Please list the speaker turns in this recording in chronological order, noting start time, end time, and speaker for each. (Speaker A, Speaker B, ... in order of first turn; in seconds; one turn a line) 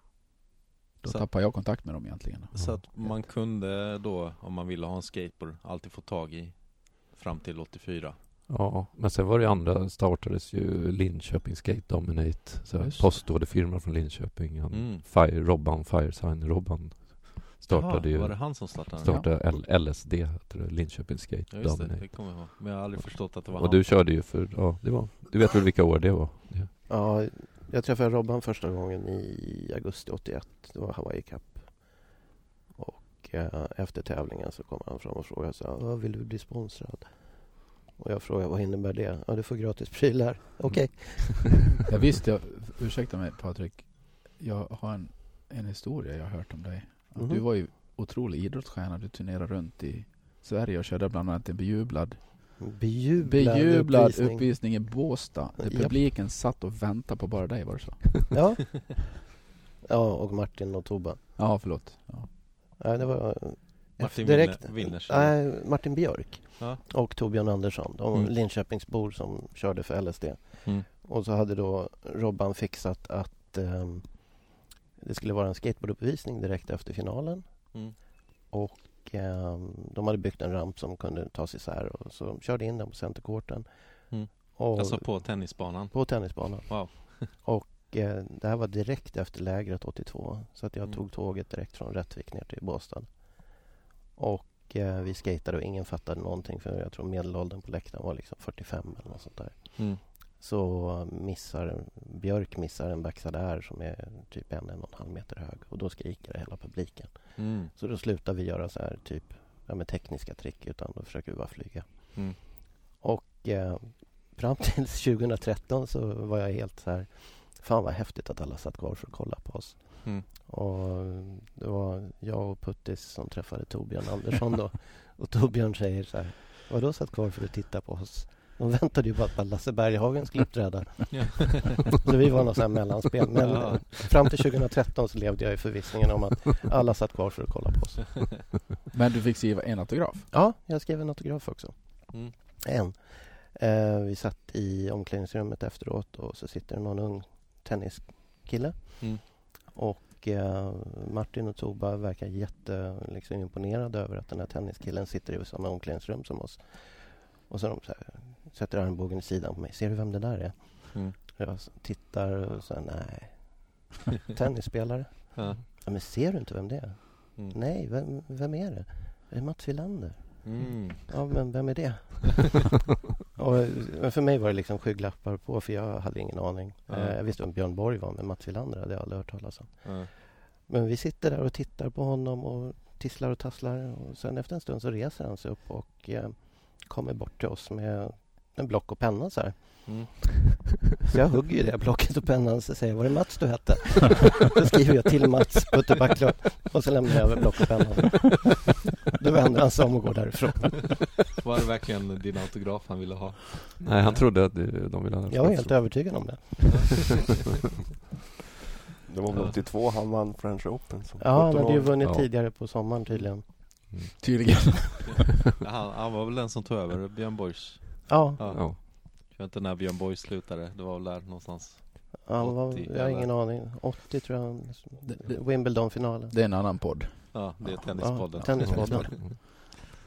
Speaker A: 1.0-3.3
Speaker B: 1.1-1.8
Speaker B: 2.5-8.2
Speaker C: 8.5-26.7
Speaker A: 12.8-13.2
Speaker B: 14.7-15.0
Speaker B: 17.7-19.3
Speaker B: 21.5-23.8
Speaker D: 26.9-32.2
Speaker D: 32.7-41.9
Speaker C: 40.9-41.4
Speaker A: 41.9-58.3
Speaker D: 47.1-47.4
Speaker D: 52.6-54.9
Speaker D: 55.6-56.0
Speaker D: 58.3-59.2
Speaker D: 59.8-61.4
Speaker A: 61.4-62.3
Speaker D: 62.8-138.4
Speaker B: 64.0-65.5
Speaker B: 84.1-87.3
Speaker B: 107.4-107.7
Speaker B: 131.1-131.8
Speaker B: 133.4-134.1
Speaker A: 138.9-140.3
Speaker D: 140.3-172.8
Speaker B: 165.3-165.6
Speaker B: 170.4-171.5
Speaker D: 173.3-190.2
Speaker B: 176.9-177.2
Speaker B: 179.8-180.1
Speaker B: 189.9-190.2
Speaker D: 191.0-201.1
Speaker B: 201.4-203.8
Speaker C: 203.8-206.5
Speaker D: 205.3-207.2
Speaker B: 206.7-206.9
Speaker E: 209.1-212.0
Speaker B: 209.3-209.6
Speaker D: 211.2-213.8
Speaker C: 212.0-212.3
Speaker A: 214.2-215.3
Speaker B: 215.1-223.3
Speaker D: 218.1-218.5
Speaker C: 218.5-218.8
Speaker D: 222.2-226.5
Speaker A: 225.1-229.2
Speaker B: 227.3-229.2
Speaker D: 227.9-229.7